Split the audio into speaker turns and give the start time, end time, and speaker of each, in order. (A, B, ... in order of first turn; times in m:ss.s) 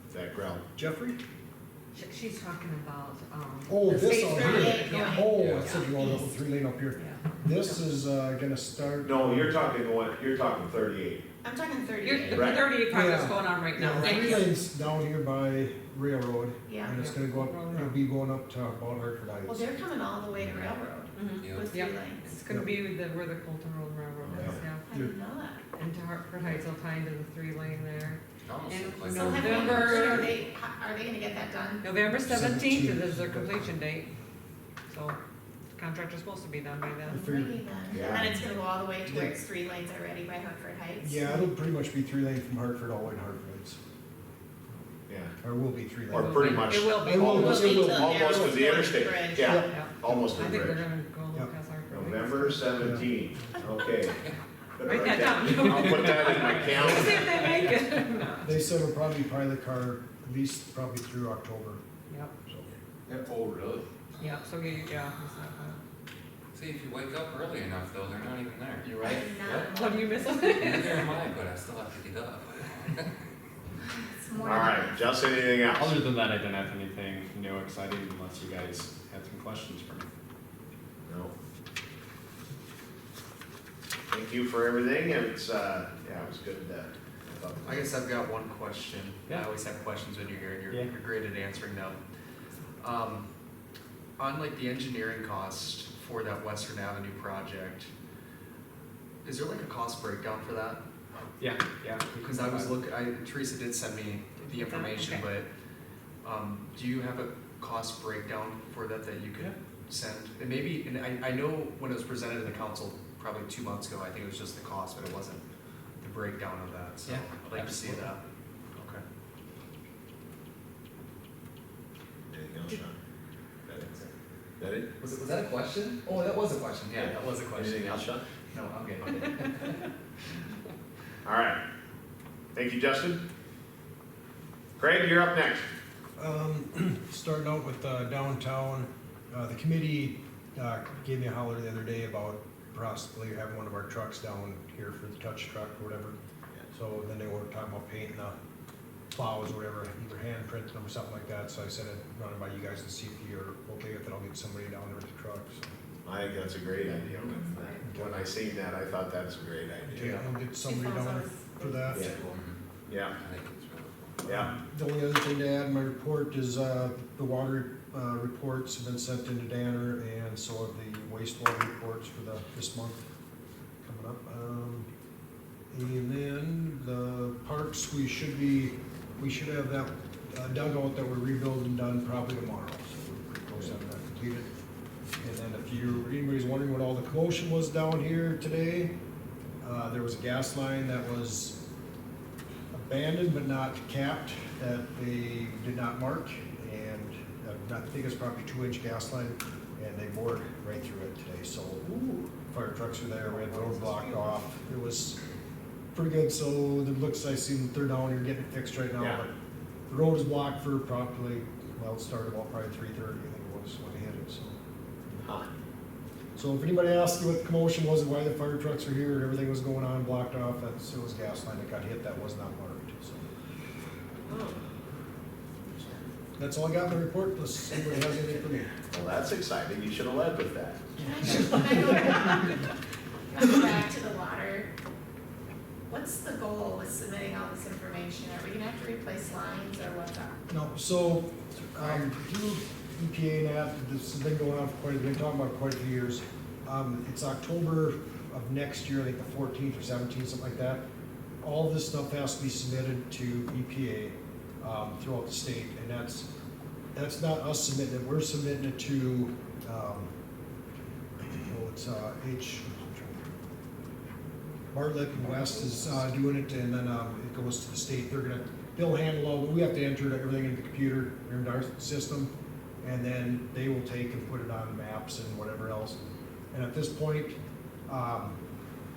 0:00.1-0:00.6 A
0:00.7-0:01.2 B
0:01.9-0:05.2 C
0:03.7-0:09.6 B
0:03.9-0:06.2 D
0:05.3-0:05.7 E
0:07.0-0:07.8 C
0:09.0-0:11.2 A
0:11.4-0:12.5 D
0:12.0-0:14.5 C
0:12.3-0:12.7 A
0:12.9-0:19.7 B
0:16.7-0:17.0 D
0:16.9-0:18.0 C
0:19.4-0:22.3 D
0:20.3-0:20.8 E
0:21.1-0:24.9 C
0:21.3-0:21.7 E
0:22.5-0:22.7 B
0:24.2-0:24.6 A
0:24.4-0:25.1 B
0:24.8-0:25.6 D
0:25.7-0:30.4 C
0:28.4-0:30.5 E
0:29.1-0:31.9 D
0:31.8-0:34.1 C
0:32.2-0:33.7 B
0:34.9-0:35.2 C
0:35.8-0:37.3 C
0:37.0-0:41.3 D
0:37.1-0:37.6 B
0:37.9-0:38.3 A
0:39.0-0:39.3 B
0:41.0-0:43.8 B
0:45.1-0:45.3 A
0:45.4-0:48.7 B
0:46.1-0:50.8 A
0:46.1-0:47.9 C
0:47.2-0:49.6 D
0:49.4-0:50.6 B
0:49.5-0:52.8 C
0:51.9-0:57.5 A
0:52.7-0:53.0 B
0:54.8-0:58.5 C
0:56.8-0:57.1 B
0:58.4-1:01.8 B
1:02.1-1:02.3 C
1:03.1-1:03.8 E
1:04.2-1:05.8 C
1:06.5-1:09.7 E
1:08.8-1:09.3 F
1:09.0-1:10.6 D
1:09.7-1:11.1 C
1:10.4-1:13.1 E
1:14.0-1:15.4 D
1:14.4-1:15.9 A
1:15.7-1:20.1 G
1:21.0-1:21.3 A
1:24.1-1:28.0 A
1:27.6-1:32.0 F
1:32.8-1:33.2 F
1:34.2-1:37.9 F
1:39.2-1:40.8 F
1:41.4-1:42.8 G
1:42.2-1:45.5 F
1:44.4-1:45.2 C
1:46.2-1:55.4 F
1:56.0-1:58.2 F
1:57.1-1:58.0 G
1:58.8-1:59.0 F
2:02.3-2:02.9 A
2:04.6-2:04.9 A
2:05.1-2:05.9 E
2:06.0-2:09.8 F
2:07.5-2:08.2 A
2:11.2-2:11.6 A
2:12.5-2:13.2 A
2:14.8-2:15.6 A
2:16.2-2:26.2 B
2:26.7-2:28.4 B
2:29.1-2:35.7 B
2:36.0-2:40.2 A
2:37.3-2:37.8 D
2:37.8-2:38.2 B
2:39.9-2:42.1 B
2:40.6-2:42.3 D
2:42.1-2:44.2 E
2:42.9-2:43.1 A
2:44.2-2:53.0 B
2:53.8-2:54.9 B
2:55.7-3:04.5 B
3:05.2-3:08.9 B
3:09.6-3:11.6 B
3:12.7-3:25.2 B
3:21.8-3:22.3 A
3:23.2-3:24.3 A
3:25.9-3:29.3 B
3:29.0-3:29.2 A
3:29.9-3:34.6 B
3:35.2-3:35.5 A
3:36.4-3:43.3 B
3:44.3-3:44.6 D
3:45.6-3:46.0 D
3:46.4-3:48.7 B
3:48.9-3:50.9 A
3:51.0-3:52.6 D
3:53.3-3:54.7 D
3:55.9-4:00.4 D
4:00.5-4:10.8 B
4:11.4-4:16.3 B
4:16.9-4:20.1 B
4:21.4-4:23.2 B
4:24.7-4:32.3 B
4:32.8-4:36.0 B
4:36.5-4:38.4 B